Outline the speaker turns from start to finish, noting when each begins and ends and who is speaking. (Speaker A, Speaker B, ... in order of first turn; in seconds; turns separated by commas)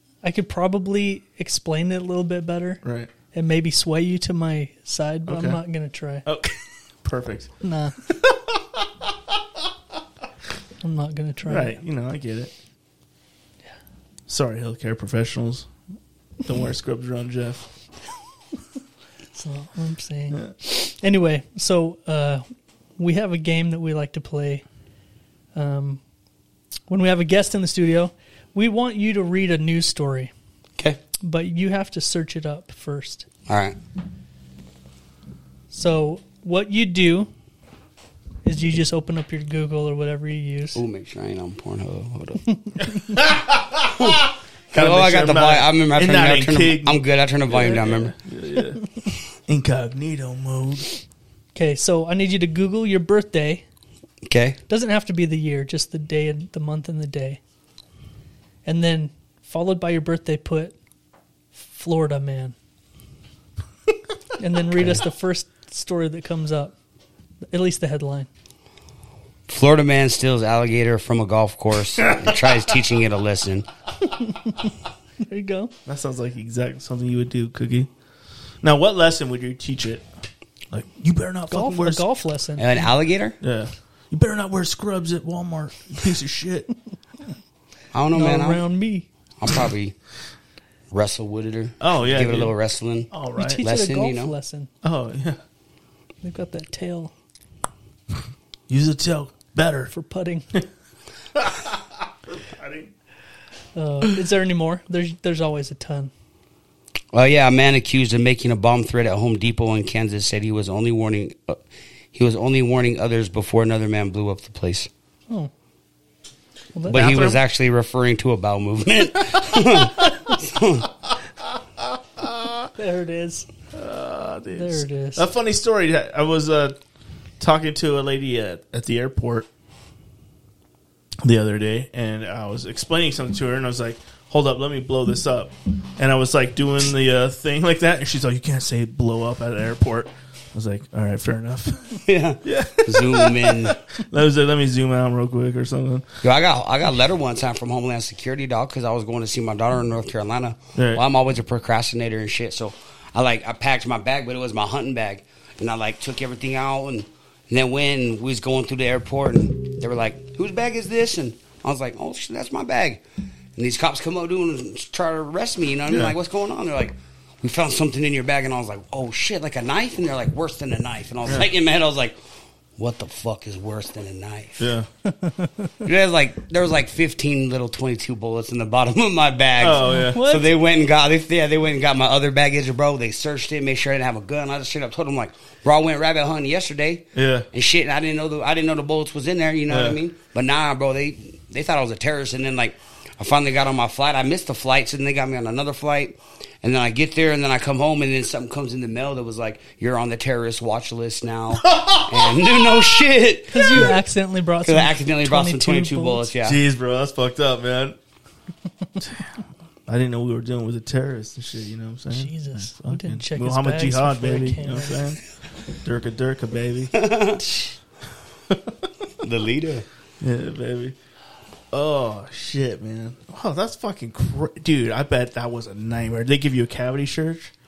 Speaker A: 0.2-6.3, Speaker B: 2.8-3.1, Speaker B: 5.3-5.6, Speaker B: 6.2-7.5, Speaker A: 7.6-8.0, Speaker B: 8.1-8.9, Speaker A: 10.8-11.8, Speaker B: 11.5-12.5, Speaker B: 14.3-15.7, Speaker B: 16.4-17.7, Speaker A: 19.4-22.4, Speaker A: 23.0-24.6, Speaker A: 25.6-26.0, Speaker A: 26.9-30.3, Speaker A: 31.2-33.3, Speaker C: 33.5-33.8, Speaker A: 35.7-37.3, Speaker A: 38.5-40.8, Speaker C: 40.8-42.5, Speaker B: 43.1-48.9, Speaker C: 44.7-48.1, Speaker B: 49.5-50.9, Speaker A: 51.5-53.6, Speaker C: 54.3-54.6, Speaker A: 54.7-57.4, Speaker A: 58.6-60.8, Speaker A: 61.5-62.5, Speaker A: 64.4-66.7, Speaker A: 67.5-68.3, Speaker C: 69.5-73.7, Speaker B: 72.0-72.7, Speaker A: 74.2-74.7, Speaker A: 75.2-75.7, Speaker B: 75.9-77.9, Speaker B: 78.6-80.1, Speaker B: 80.7-82.0, Speaker A: 81.5-82.8, Speaker C: 82.6-83.4, Speaker B: 83.4-86.7, Speaker C: 87.9-88.6, Speaker A: 88.1-89.1, Speaker C: 89.4-90.0, Speaker C: 90.9-93.1, Speaker B: 91.8-92.5, Speaker B: 93.1-93.6, Speaker A: 93.4-94.7, Speaker C: 93.6-94.3, Speaker B: 94.8-95.4, Speaker A: 96.2-97.1, Speaker B: 98.7-99.9, Speaker A: 99.9-100.5, Speaker B: 101.3-102.9, Speaker A: 103.8-106.1, Speaker C: 107.1-111.6, Speaker C: 112.1-114.9, Speaker A: 116.8-117.1, Speaker B: 116.9-117.4, Speaker C: 116.9-120.8, Speaker B: 122.2-122.7, Speaker A: 122.8-123.5, Speaker B: 123.7-126.8, Speaker A: 124.5-125.3, Speaker B: 127.4-129.5, Speaker B: 131.2-146.1, Speaker C: 142.0-143.8, Speaker C: 146.2-163.0, Speaker B: 150.8-151.0, Speaker C: 163.6-172.2, Speaker B: 165.9-166.2, Speaker C: 172.8-174.7, Speaker B: 174.6-174.9, Speaker A: 175.2-175.5, Speaker C: 175.8-203.9, Speaker B: 179.6-180.3, Speaker A: 179.8-180.5, Speaker B: 187.1-187.5, Speaker B: 189.7-190.0, Speaker B: 201.5-202.5, Speaker A: 203.5-206.3, Speaker C: 204.7-206.6, Speaker B: 206.4-208.0, Speaker B: 209.0-215.2, Speaker A: 212.1-215.0, Speaker B: 215.8-216.9, Speaker C: 217.0-217.4, Speaker B: 218.5-218.9, Speaker C: 219.2-219.9, Speaker B: 220.2-221.0, Speaker B: 221.7-227.5